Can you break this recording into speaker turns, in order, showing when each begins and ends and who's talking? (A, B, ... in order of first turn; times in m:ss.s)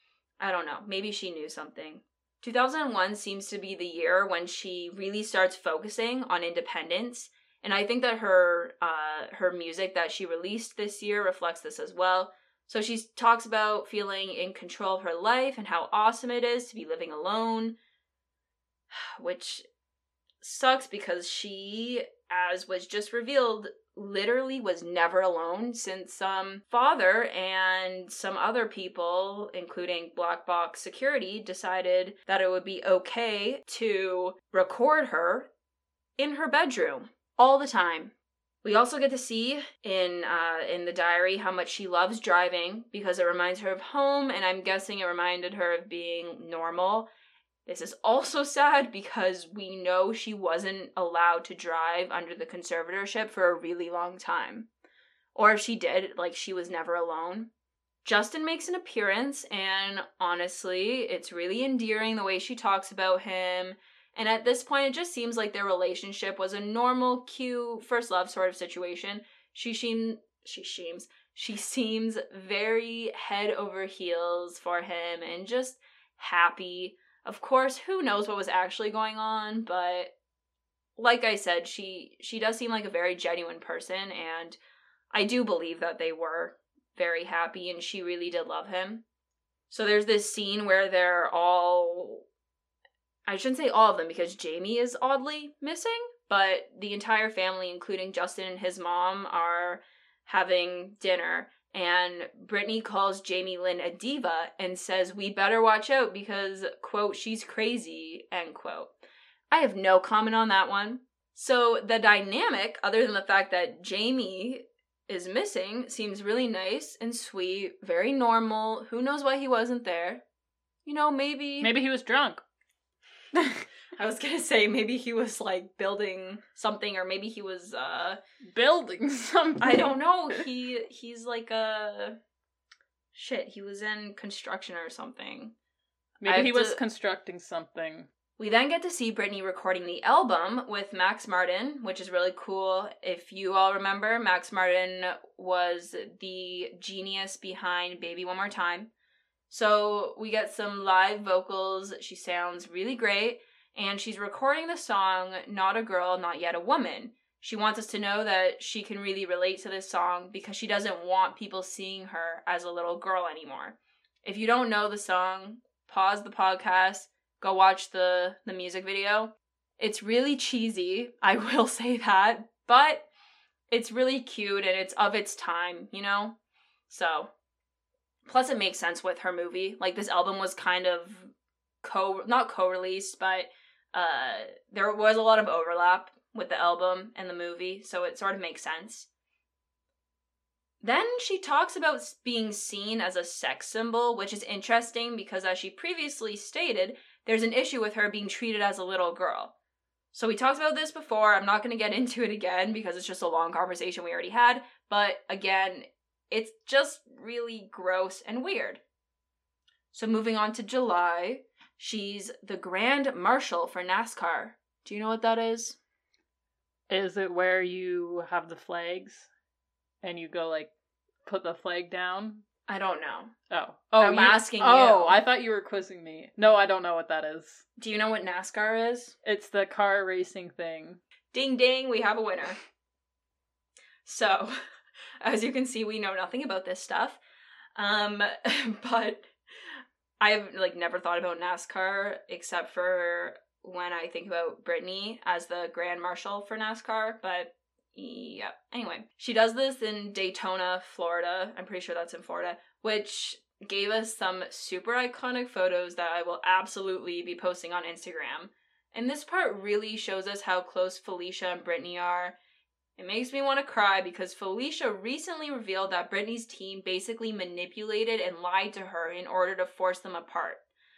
0:00.4-0:17.8 A
0:18.9-0:19.6 A
0:20.4-0:35.5 A
0:36.2-0:47.1 A
0:47.6-0:54.7 A
0:55.3-0:57.5 A
0:58.0-1:20.1 A
1:21.0-1:24.6 A
1:25.1-1:29.0 A
1:29.7-1:32.2 A
1:33.3-1:48.9 A
1:49.5-2:00.2 A
2:00.8-2:01.7 A
2:01.6-2:02.4 B
2:03.4-2:03.6 B
2:04.0-2:08.2 A
2:08.5-2:10.4 B
2:09.6-2:12.2 A
2:13.1-2:15.5 A
2:16.2-2:18.1 B
2:16.2-2:16.8 A
2:18.4-2:28.9 A
2:29.5-2:53.0 A
2:53.7-2:56.3 A
2:56.9-2:57.3 A
2:58.2-3:01.3 A
3:01.8-3:09.1 A
3:10.8-3:19.5 A
3:20.1-3:28.8 A
3:29.9-3:35.8 A
3:36.9-3:39.3 B
3:40.0-3:40.7 B
3:41.2-3:42.4 B
3:42.7-3:43.3 A
3:43.5-3:47.6 B
3:44.0-3:45.2 A
3:47.8-3:49.1 A
3:49.2-3:51.0 B
3:51.3-3:52.6 A
3:54.0-3:54.5 A
3:55.2-3:57.2 A
3:57.8-3:59.3 A
4:00.2-4:22.4 A
4:23.0-4:30.6 A